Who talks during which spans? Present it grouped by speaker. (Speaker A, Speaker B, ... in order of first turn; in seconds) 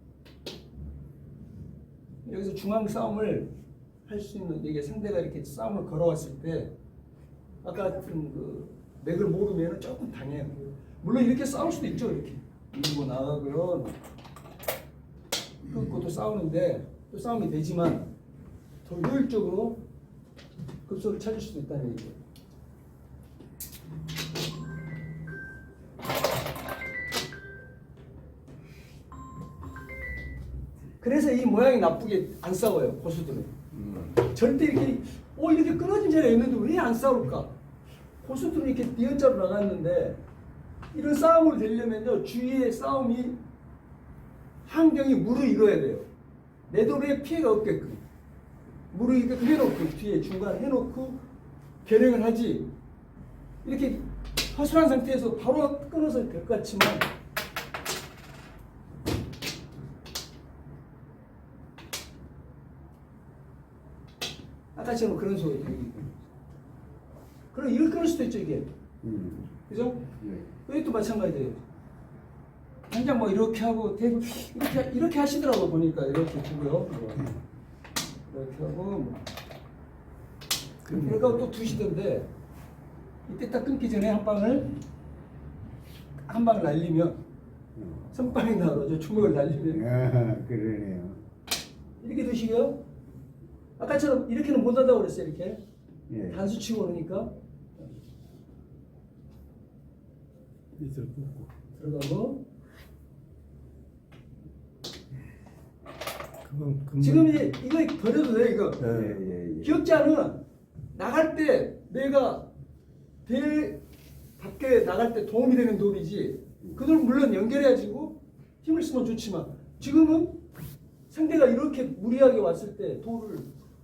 Speaker A: 2.2-3.5, 4.1-6.7, 7.6-14.0, 15.7-18.1, 18.8-19.8, 20.9-22.2, 31.0-33.5, 34.2-37.5, 38.2-40.2, 40.9-43.4, 44.6-46.1, 46.7-48.0, 48.9-51.2, 51.8-52.7, 53.6-57.1, 64.7-66.3, 67.5-68.7, 69.7-70.1, 70.6-71.6, 72.9-77.3, 78.3-79.2, 80.9-82.3, 83.3-84.7, 86.2-87.2, 88.1-89.8, 92.0-92.8, 93.8-95.6, 96.3-97.9, 101.7-102.4, 107.0-108.9, 109.6-110.4, 110.9-112.5, 113.2-113.8, 114.4-120.4, 121.1-123.5
Speaker B: 33.7-34.2, 80.8-81.5, 100.8-101.5, 106.4-107.5, 108.8-109.2
Speaker C: 69.0-69.5, 70.2-70.5, 87.7-88.2, 89.7-91.2, 96.1-96.5, 108.9-109.8